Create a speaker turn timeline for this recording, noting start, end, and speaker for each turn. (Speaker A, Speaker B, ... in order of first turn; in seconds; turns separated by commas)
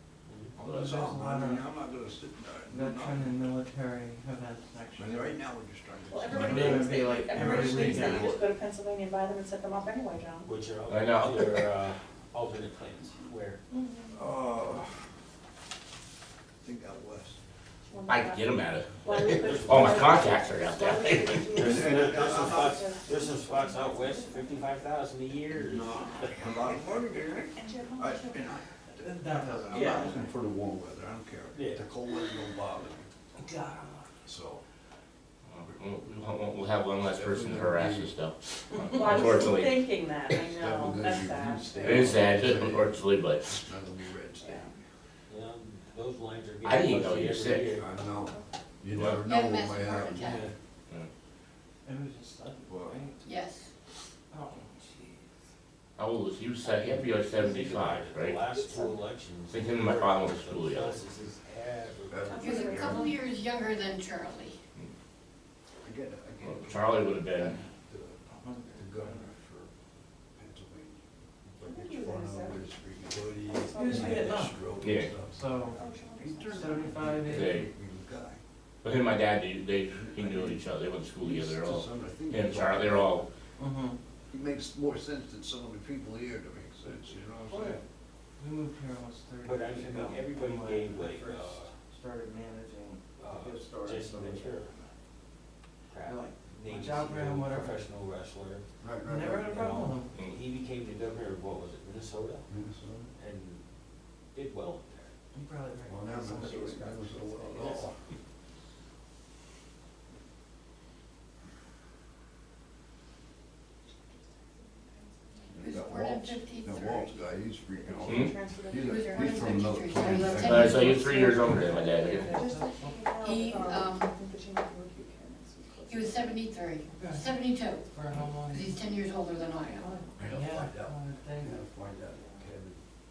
Speaker A: 0.3-0.5, Speaker B: 0.6-3.4, Speaker C: 0.7-1.7, Speaker C: 2.7-5.3, Speaker B: 5.0-8.4, Speaker D: 6.1-10.5, Speaker C: 6.3-8.3, Speaker A: 10.4-13.6, Speaker E: 10.9-11.4, Speaker D: 13.7-14.2, Speaker B: 14.1-14.9, Speaker B: 16.6-17.4, Speaker D: 17.9-24.7, Speaker E: 18.1-21.6, Speaker A: 19.1-20.4, Speaker B: 21.5-22.8, Speaker A: 21.6-26.3, Speaker B: 25.6-33.1, Speaker D: 27.5-28.5, Speaker C: 29.0-30.3, Speaker D: 29.7-30.1, Speaker A: 31.5-31.8, Speaker C: 33.4-34.0, Speaker B: 34.2-34.6, Speaker E: 35.5-39.8, Speaker B: 37.0-38.1, Speaker D: 38.9-42.2, Speaker B: 40.5-43.0, Speaker E: 41.8-43.7, Speaker B: 43.5-44.7, Speaker D: 44.4-44.7, Speaker A: 45.3-47.9, Speaker E: 46.6-47.8, Speaker B: 47.8-50.5, Speaker E: 48.9-49.2, Speaker F: 49.2-50.5, Speaker A: 50.2-50.5, Speaker C: 51.8-53.4, Speaker B: 52.7-53.0, Speaker F: 53.2-53.7, Speaker C: 54.3-55.3, Speaker E: 56.0-58.4, Speaker A: 56.6-62.7, Speaker E: 59.5-61.0, Speaker B: 62.1-63.2, Speaker D: 62.2-63.2, Speaker F: 62.4-64.6, Speaker B: 65.8-69.7, Speaker E: 66.4-67.6, Speaker C: 68.4-69.3, Speaker B: 70.3-78.4, Speaker D: 71.6-72.7, Speaker D: 73.5-74.5, Speaker C: 73.7-74.5, Speaker E: 74.8-75.2, Speaker C: 75.3-75.8, Speaker D: 75.7-77.0, Speaker C: 76.5-77.6, Speaker E: 77.3-77.7, Speaker E: 78.8-83.3, Speaker B: 79.9-80.6, Speaker B: 81.2-83.3, Speaker C: 83.6-84.0, Speaker B: 84.3-87.8, Speaker C: 87.5-87.8, Speaker C: 88.4-94.8, Speaker A: 89.4-91.7, Speaker A: 93.2-94.7, Speaker A: 95.9-98.6, Speaker C: 96.0-97.8, Speaker B: 98.8-99.7, Speaker C: 99.0-100.1, Speaker A: 99.4-102.5, Speaker B: 102.5-103.1, Speaker A: 103.2-103.6, Speaker A: 104.3-105.1, Speaker C: 105.3-107.7, Speaker B: 105.8-108.0, Speaker A: 107.6-107.9, Speaker D: 114.0-115.6, Speaker B: 115.5-121.1, Speaker F: 115.5-117.1, Speaker D: 117.7-126.5, Speaker E: 118.0-118.3, Speaker F: 118.8-121.1, Speaker E: 120.4-122.4, Speaker C: 122.1-123.1, Speaker F: 123.2-124.1, Speaker F: 125.8-127.9, Speaker C: 126.9-127.3, Speaker C: 127.8-128.8, Speaker F: 128.4-129.9, Speaker D: 129.8-130.1, Speaker C: 130.0-131.6, Speaker B: 130.2-132.8